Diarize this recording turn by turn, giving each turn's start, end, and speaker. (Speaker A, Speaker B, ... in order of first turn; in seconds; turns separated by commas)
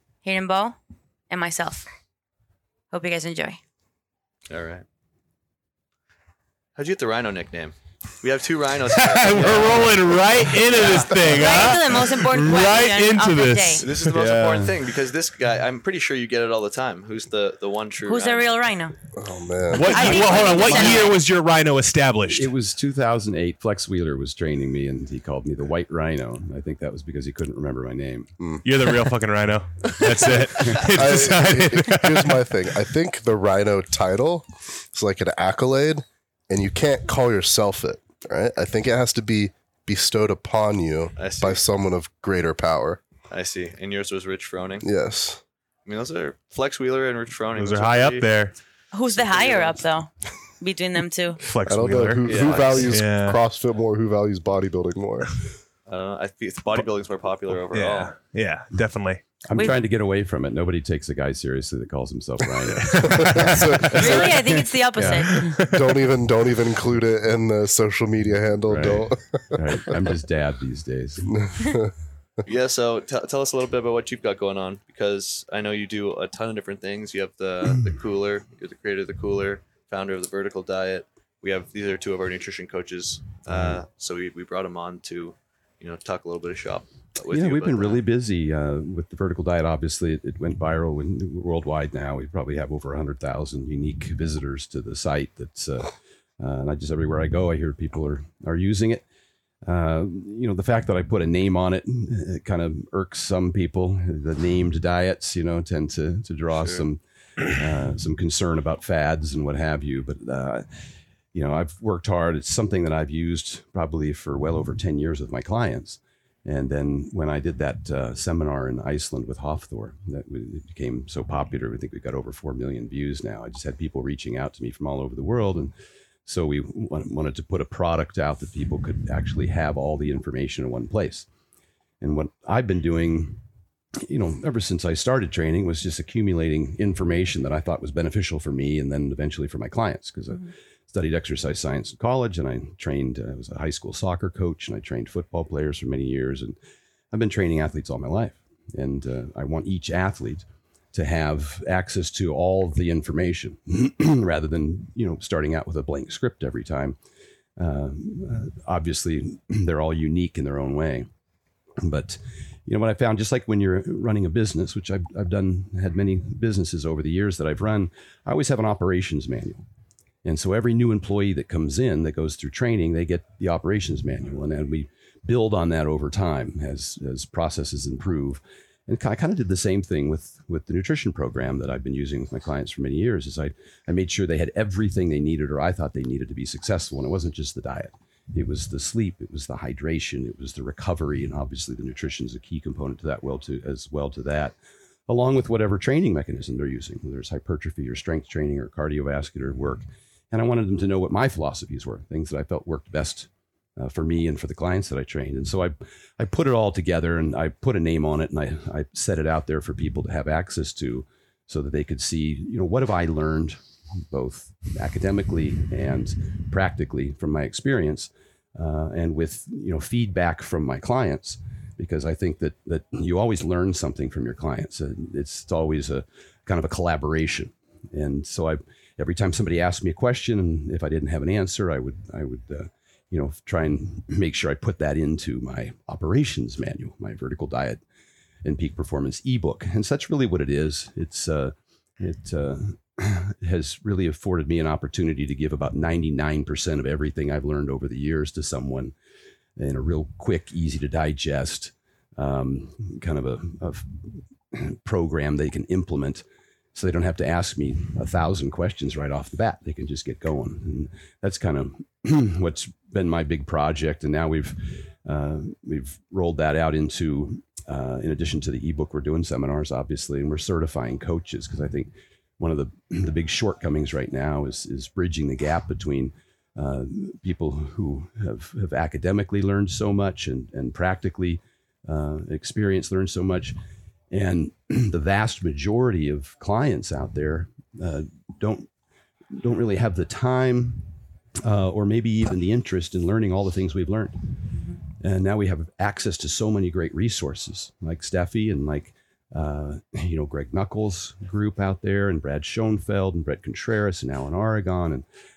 Speaker A: 0.2-0.8, Speaker A: 1.3-1.9, Speaker A: 2.9-3.6, Speaker B: 4.5-4.8, Speaker B: 6.8-11.2, Speaker C: 9.0-14.7, Speaker A: 11.3-13.8, Speaker B: 13.8-18.6, Speaker A: 18.1-19.0, Speaker D: 19.2-20.2, Speaker C: 19.7-22.5, Speaker A: 19.8-21.1, Speaker E: 20.6-21.0, Speaker E: 22.3-28.3, Speaker D: 28.4-28.6, Speaker C: 28.6-32.5, Speaker D: 30.9-43.0, Speaker B: 41.1-41.6, Speaker B: 43.3-44.9, Speaker D: 44.8-45.4, Speaker B: 45.9-48.3, Speaker C: 47.5-48.5, Speaker A: 48.9-51.4, Speaker B: 49.1-49.8, Speaker C: 51.5-53.4, Speaker D: 51.6-55.3, Speaker B: 52.2-52.9, Speaker B: 55.9-58.1, Speaker C: 57.7-59.4, Speaker E: 59.5-64.2, Speaker C: 62.8-64.2, Speaker D: 63.1-64.3, Speaker A: 63.9-65.4, Speaker E: 65.0-65.2, Speaker C: 65.3-66.0, Speaker D: 65.7-69.6, Speaker E: 68.7-69.0, Speaker C: 68.8-69.1, Speaker E: 69.5-71.3, Speaker D: 71.2-71.9, Speaker B: 72.4-88.0, Speaker E: 83.5-83.8, Speaker E: 87.3-99.0, Speaker E: 99.6-110.7, Speaker E: 111.3-125.7, Speaker E: 126.2-131.3, Speaker E: 132.0-133.4, Speaker E: 134.0-146.6, Speaker E: 147.1-157.0, Speaker E: 157.6-161.1, Speaker E: 161.8-169.6, Speaker E: 170.2-194.5, Speaker E: 195.1-237.8, Speaker E: 238.4-248.9, Speaker E: 249.6-283.6, Speaker E: 284.1-288.7, Speaker E: 289.3-294.2, Speaker E: 294.9-305.1